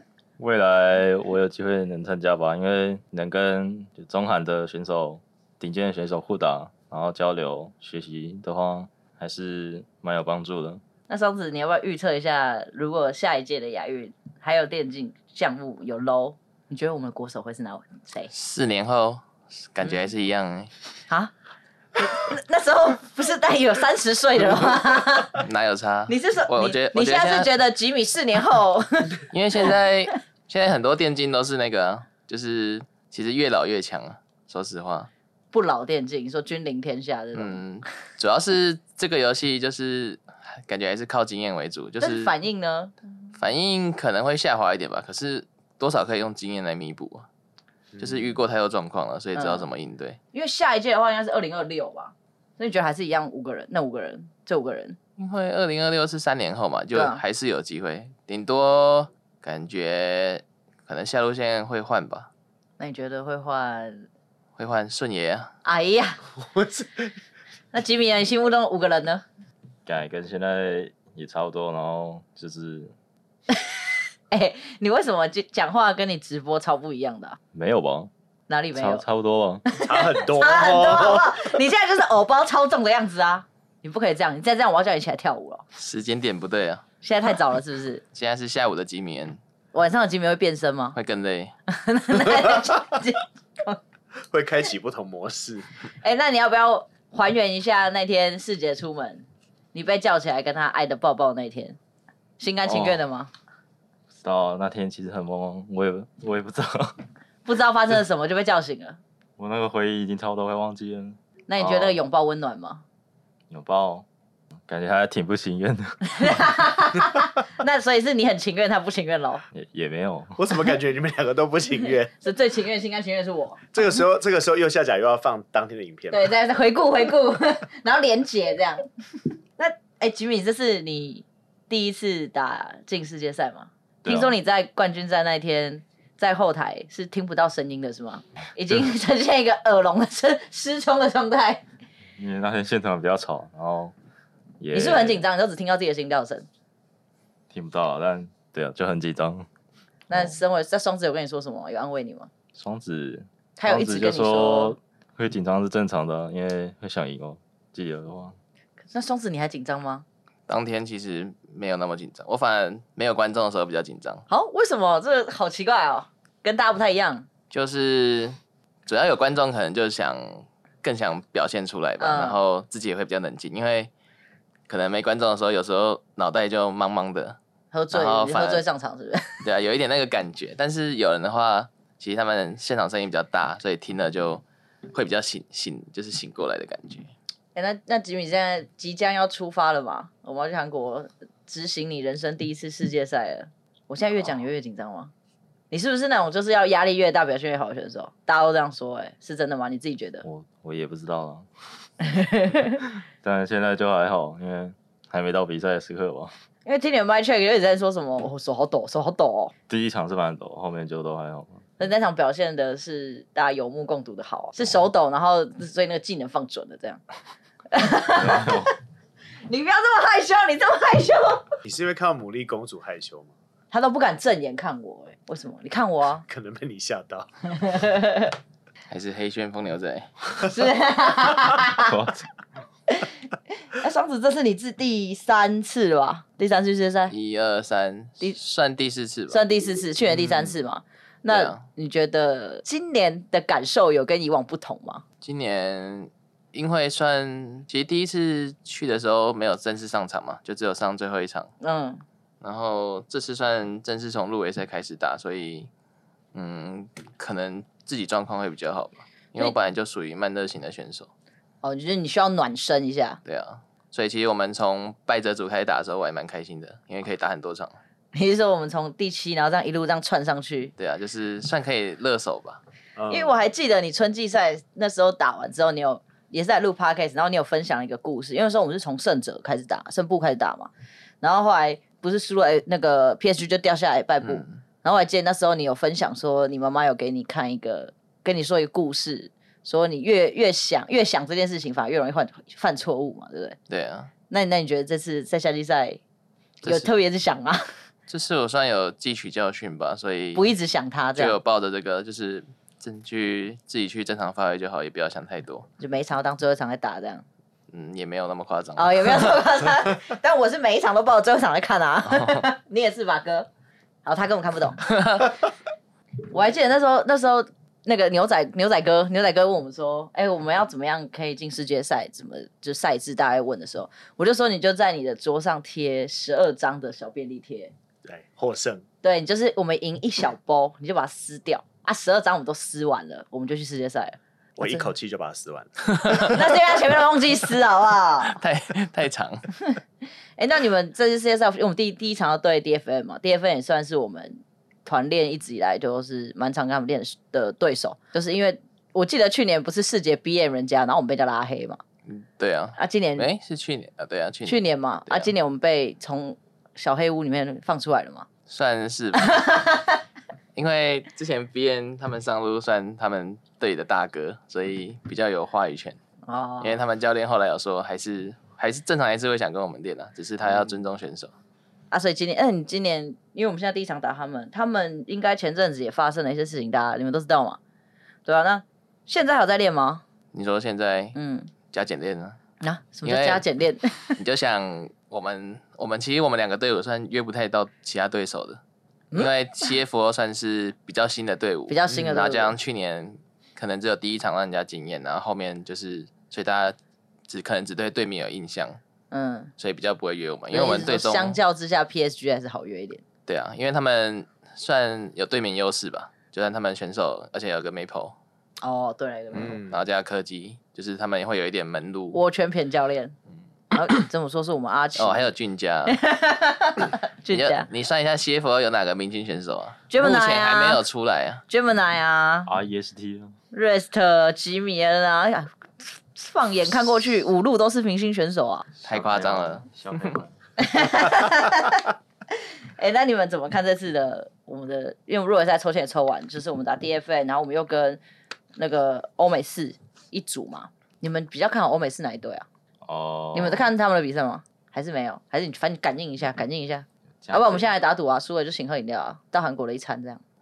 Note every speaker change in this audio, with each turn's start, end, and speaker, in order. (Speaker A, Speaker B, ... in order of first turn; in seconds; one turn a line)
Speaker A: 0.4-10.8
Speaker B: 11.1-18.3
Speaker C: 18.3-20.7
Speaker B: 22.0-25.4
Speaker C: 25.4-27.5
Speaker B: 26.1-29.2
Speaker C: 29.3-35.1
Speaker B: 35.5-37.6
Speaker C: 37.3-42.3
Speaker B: 42.0-42.9
Speaker C: 43.3-47.2
Speaker C: 48.0-50.2
Speaker B: 49.3-49.6
Speaker B: 50.3-55.0
Speaker C: 55.2-62.3
Speaker B: 56.9-57.2
Speaker B: 62.8-64.0
Speaker C: 64.6-65.5
Speaker B: 65.6-66.2
Speaker D: 66.4-67.1
Speaker B: 67.7-69.2
Speaker A: 69.8-72.9
Speaker B: 74.3-77.4
Speaker A: 77.5-78.1
Speaker B: 78.5-79.0
Speaker A: 78.7-79.6
Speaker B: 79.7-85.6
Speaker D: 79.8-81.3
Speaker C: 85.8-86.8
Speaker B: 87.0-88.0
Speaker C: 88.1-89.4
Speaker B: 89.7-91.0
Speaker C: 90.9-91.5
Speaker B: 91.7-93.8
Speaker D: 94.3-95.6
Speaker B: 96.0-101.8
Speaker B: 102.4-103.3
Speaker A: 102.7-103.0
Speaker A: 104.1-107.0
Speaker B: 107.4-109.0
Speaker A: 109.4-112.0
Speaker B: 111.5-112.8
Speaker A: 113.5-114.0
Speaker A: 114.7-116.5
Speaker B: 116.1-119.4
Speaker A: 119.5-120.3
Speaker D: 120.4-122.1
Speaker B: 122.2-123.7
Speaker D: 123.7-126.2
Speaker B: 126.1-128.8
Speaker B: 129.6-141.6
Speaker A: 134.0-134.4
Speaker A: 142.2-143.9
Speaker A: 144.6-145.2
Speaker B: 144.7-146.4
Speaker A: 147.5-149.5
Speaker B: 150.1-152.3
Speaker A: 152.5-158.4
Speaker B: 153.6-154.7
Speaker B: 158.9-160.0
Speaker C: 160.5-164.2
Speaker B: 164.3-167.3
Speaker C: 167.5-173.9
Speaker B: 172.0-172.4
Speaker C: 174.7-177.4
Speaker B: 177.7-179.4
Speaker C: 177.9-178.6
Speaker C: 179.4-187.1
Speaker B: 187.5-195.1
Speaker B: 195.7-200.2
Speaker A: 200.2-201.5
Speaker B: 202.0-202.8
Speaker A: 203.2-206.3
Speaker B: 206.7-209.5
Speaker A: 209.7-211.6
Speaker B: 211.8-217.0
Speaker B: 217.7-218.7
Speaker A: 218.1-218.7
Speaker B: 219.5-221.5
Speaker D: 221.6-223.3
Speaker B: 223.7-226.2
Speaker D: 226.3-227.3
Speaker B: 227.5-228.3
Speaker C: 228.9-230.1
Speaker B: 230.4-231.9
Speaker A: 231.8-232.2
Speaker B: 232.9-237.1
Speaker C: 237.1-239.4
Speaker B: 239.3-245.0
Speaker C: 241.3-241.6
Speaker C: 245.2-251.5
Speaker B: 251.6-252.0
Speaker C: 252.4-255.7
Speaker C: 256.3-261.1
Speaker B: 261.6-263.2
Speaker C: 263.2-267.7
Speaker B: 268.1-270.7
Speaker C: 270.8-272.6
Speaker D: 273.0-273.4
Speaker B: 273.1-280.7
Speaker B: 281.2-293.6
Speaker C: 284.2-284.6
Speaker C: 293.7-294.1
Speaker B: 294.3-296.0
Speaker C: 296.6-296.9
Speaker B: 296.6-297.7
Speaker C: 298.1-300.4
Speaker B: 300.3-301.4
Speaker C: 301.1-305.7
Speaker B: 305.8-307.2
Speaker C: 307.7-309.4
Speaker B: 308.8-313.5
Speaker C: 312.1-312.4
Speaker B: 314.0-314.9
Speaker C: 314.9-315.2
Speaker B: 316.3-327.7
Speaker D: 328.1-328.8
Speaker B: 329.0-334.9
Speaker D: 334.6-336.4
Speaker B: 336.1-338.4
Speaker C: 338.3-339.4
Speaker B: 340.4-351.8
Speaker C: 352.1-355.3
Speaker B: 352.8-353.2
Speaker B: 354.4-358.3
Speaker C: 358.5-359.4
Speaker B: 359.2-360.0
Speaker C: 360.6-366.0
Speaker B: 366.3-366.8
Speaker C: 366.6-371.3
Speaker B: 371.9-377.6
Speaker B: 378.2-380.0
Speaker C: 380.3-381.1
Speaker B: 381.1-381.5
Speaker C: 381.7-382.4
Speaker B: 382.6-384.2
Speaker C: 383.0-383.4
Speaker C: 384.2-388.6
Speaker C: 389.1-396.8
Speaker B: 391.7-392.5
Speaker C: 397.3-398.8
Speaker B: 399.1-399.5
Speaker C: 399.6-401.4
Speaker B: 400.5-403.0
Speaker C: 403.3-408.1
Speaker B: 408.6-409.6
Speaker D: 409.4-409.8
Speaker C: 409.5-412.2
Speaker B: 412.1-413.1
Speaker B: 413.7-415.3
Speaker C: 414.9-416.0
Speaker B: 415.9-417.7
Speaker C: 417.3-421.4
Speaker B: 419.9-420.8
Speaker B: 421.5-422.5
Speaker A: 422.4-423.4
Speaker B: 423.5-428.7
Speaker A: 428.8-430.3
Speaker C: 428.9-430.1
Speaker B: 430.6-431.9
Speaker B: 432.8-438.0
Speaker B: 438.6-442.4
Speaker A: 442.8-443.7
Speaker B: 443.3-450.2
Speaker A: 447.2-447.7